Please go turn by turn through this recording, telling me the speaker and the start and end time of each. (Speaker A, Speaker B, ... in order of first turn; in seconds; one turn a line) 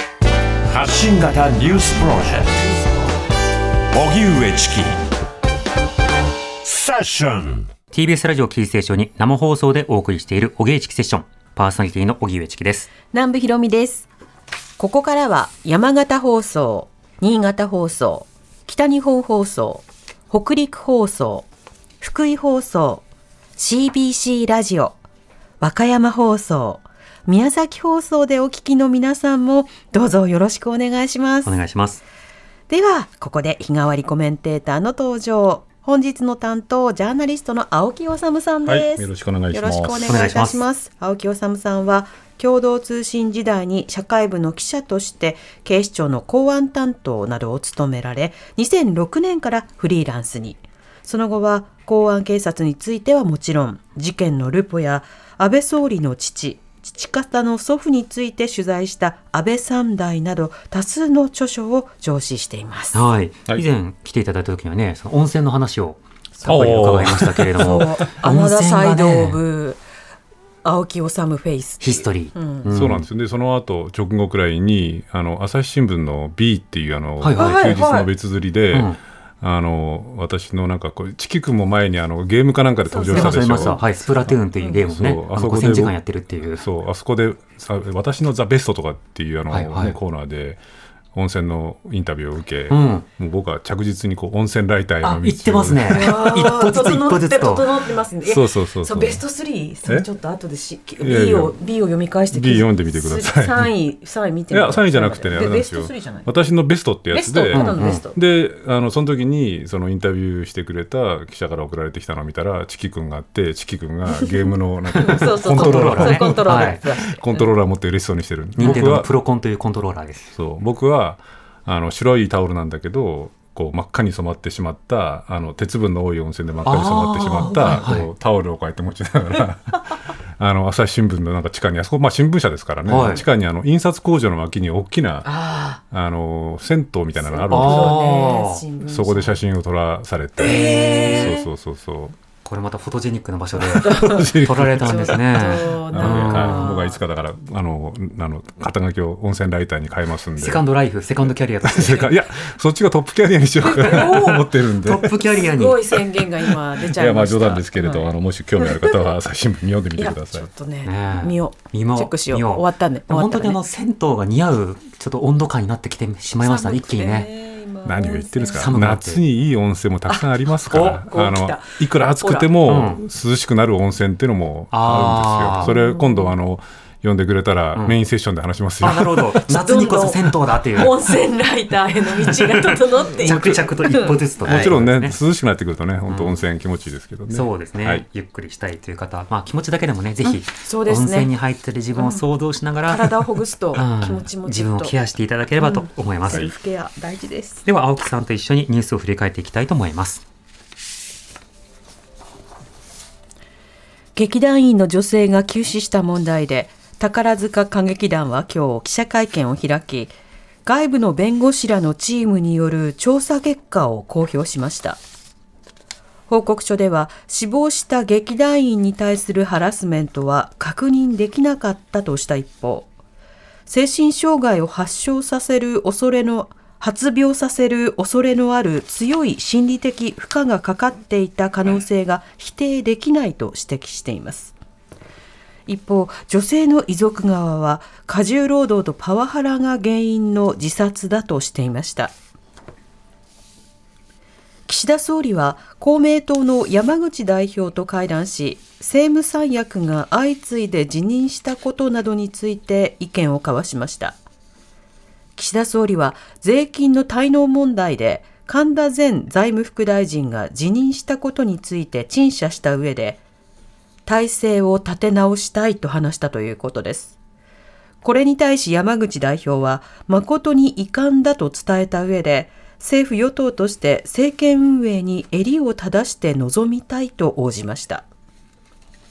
Speaker A: 0.7-2.9
Speaker A: 3.9-5.1
Speaker A: 6.6-7.7
Speaker B: 7.9-12.9
Speaker C: 13.1-14.1
Speaker C: 14.8-21.5
Speaker C: 22.0-23.1
Speaker C: 23.6-25.0
Speaker C: 25.6-31.6
Speaker B: 31.4-32.0
Speaker C: 32.7-63.0
Speaker D: 38.6-40.2
Speaker B: 40.1-40.6
Speaker B: 62.9-69.4
Speaker D: 66.5-67.9
Speaker C: 67.6-69.8
Speaker C: 70.6-72.7
Speaker B: 71.8-73.0
Speaker D: 72.7-86.0
Speaker B: 77.2-77.6
Speaker C: 77.4-78.1
Speaker B: 78.7-79.0
Speaker C: 82.9-83.8
Speaker B: 83.1-86.7
Speaker D: 86.6-90.6
Speaker B: 89.5-90.0
Speaker D: 91.1-96.4
Speaker B: 92.7-93.0
Speaker B: 95.0-97.8
Speaker C: 95.9-106.3
Speaker D: 98.2-99.2
Speaker D: 101.0-101.6
Speaker D: 102.3-103.7
Speaker D: 104.5-119.1
Speaker C: 107.1-108.2
Speaker B: 107.5-108.0
Speaker B: 115.0-116.8
Speaker C: 115.0-117.4
Speaker B: 118.6-120.3
Speaker D: 120.3-138.1
Speaker B: 126.7-128.1
Speaker C: 127.5-127.8
Speaker B: 132.9-133.2
Speaker C: 135.2-135.8
Speaker C: 137.2-139.4
Speaker B: 137.5-138.6
Speaker D: 138.8-142.2
Speaker C: 140.4-141.5
Speaker B: 140.4-141.3
Speaker B: 142.4-146.7
Speaker D: 143.6-150.6
Speaker C: 143.8-146.9
Speaker B: 150.4-152.2
Speaker D: 151.6-155.5
Speaker C: 153.6-154.5
Speaker B: 153.8-155.9
Speaker C: 155.3-159.0
Speaker D: 156.5-160.5
Speaker C: 160.0-163.6
Speaker B: 160.8-167.3
Speaker C: 166.4-168.7
Speaker D: 167.8-179.4
Speaker B: 168.5-169.2
Speaker C: 170.1-171.7
Speaker B: 170.7-171.0
Speaker C: 172.2-172.5
Speaker B: 172.6-173.0
Speaker B: 174.7-175.7
Speaker C: 175.6-176.4
Speaker B: 178.8-181.1
Speaker C: 179.5-180.2
Speaker C: 180.7-184.7
Speaker B: 182.3-185.2
Speaker D: 183.1-183.7
Speaker D: 184.4-188.1
Speaker B: 186.1-186.4
Speaker B: 187.3-196.5
Speaker C: 190.2-191.3
Speaker C: 192.0-192.2
Speaker C: 192.9-194.9
Speaker C: 195.6-197.7
Speaker B: 197.7-200.2
Speaker C: 204.2-210.1
Speaker C: 210.7-215.0
Speaker C: 216.3-222.9
Speaker C: 223.7-234.6
Speaker C: 235.7-242.1
Speaker C: 244.7-254.2
Speaker C: 255.4-263.2
Speaker C: 264.1-267.1
Speaker C: 268.0-278.1